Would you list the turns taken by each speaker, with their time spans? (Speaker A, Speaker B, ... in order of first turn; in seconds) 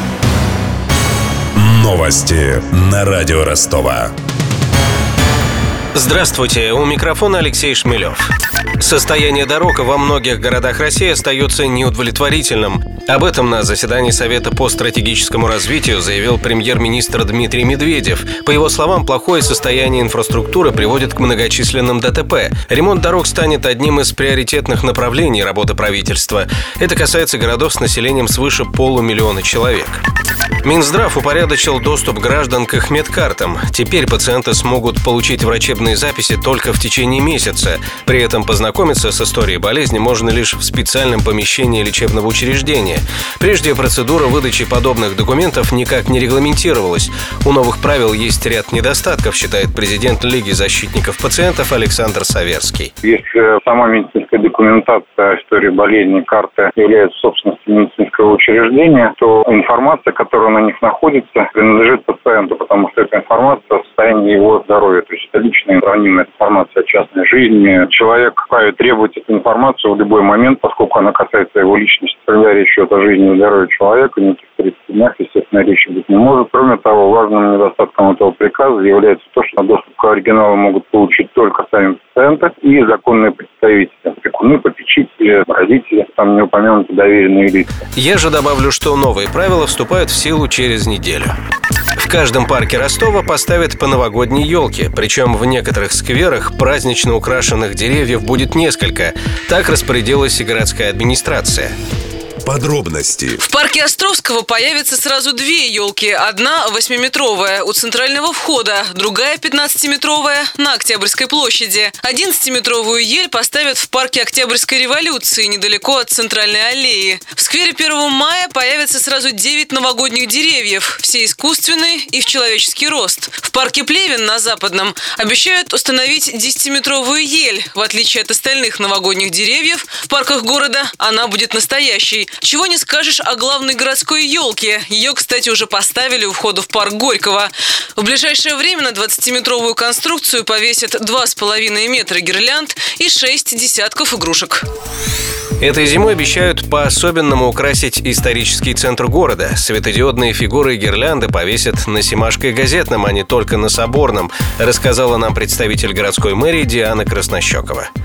Speaker A: 1.6-4.1, 102.4-103.4
Speaker B: 5.9-8.2, 8.8-30.0, 30.6-52.9, 87.9-91.3, 92.0-101.7, 145.6-157.9
Speaker C: 53.0-87.7
Speaker D: 103.4-144.6